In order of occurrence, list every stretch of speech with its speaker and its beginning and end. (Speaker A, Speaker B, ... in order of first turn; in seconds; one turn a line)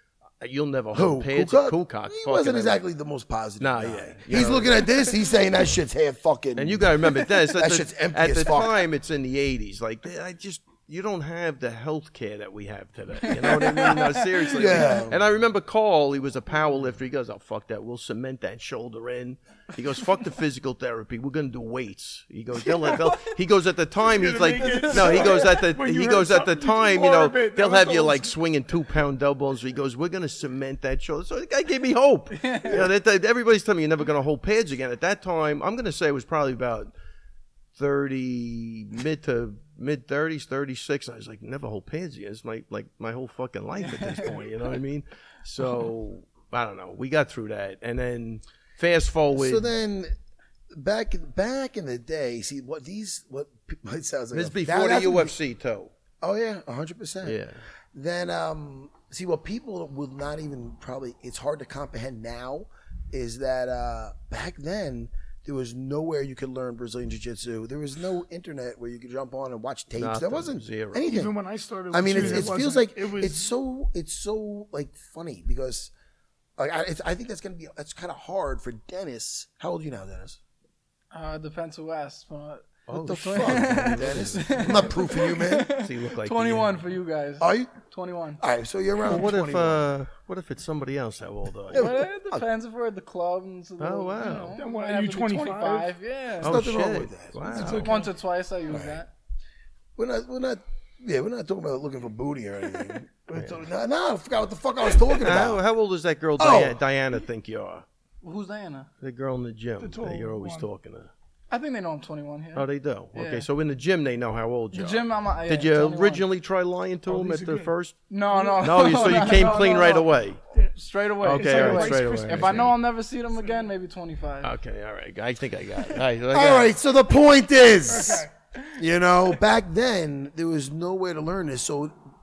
Speaker A: 0.4-2.8
Speaker B: 0.9-8.8
Speaker A: 3.6-4.9
Speaker A: 6.5-36.9
Speaker C: 13.4-14.2
Speaker B: 14.5-15.2
Speaker D: 24.0-28.3
Speaker C: 24.6-25.3
Speaker C: 32.3-32.9
Speaker A: 37.8-49.7
Speaker C: 44.0-44.3
Speaker B: 49.3-50.1
Speaker B: 50.7-55.3
Speaker A: 54.3-55.9
Speaker B: 56.2-57.4
Speaker A: 57.2-57.6
Speaker B: 57.9-71.3
Speaker A: 69.9-71.1
Speaker D: 71.1-73.5
Speaker B: 71.9-75.9
Speaker A: 72.1-72.5
Speaker B: 76.6-80.4
Speaker C: 81.1-88.4
Speaker A: 82.9-85.0
Speaker B: 82.9-85.7
Speaker A: 85.6-86.8
Speaker B: 87.4-87.7
Speaker B: 88.4-89.8
Speaker A: 89.0-92.0
Speaker B: 91.7-92.4
Speaker C: 91.7-96.6
Speaker A: 93.8-94.5
Speaker D: 94.5-95.9
Speaker B: 96.4-97.6
Speaker A: 96.4-98.0
Speaker D: 97.5-98.1
Speaker C: 97.5-99.1
Speaker B: 98.7-99.0
Speaker B: 100.0-105.6
Speaker A: 103.3-103.6
Speaker A: 105.2-107.8
Speaker B: 106.4-106.8
Speaker C: 108.2-108.9
Speaker A: 109.0-111.1
Speaker D: 109.8-110.7
Speaker C: 111.5-113.5
Speaker A: 112.5-120.4
Speaker C: 114.7-116.2
Speaker D: 117.1-117.7
Speaker C: 118.1-120.2
Speaker D: 118.4-119.9
Speaker C: 120.7-124.5
Speaker A: 121.2-122.7
Speaker D: 121.3-122.8
Speaker A: 124.4-126.7
Speaker B: 126.3-131.9
Speaker D: 127.8-128.3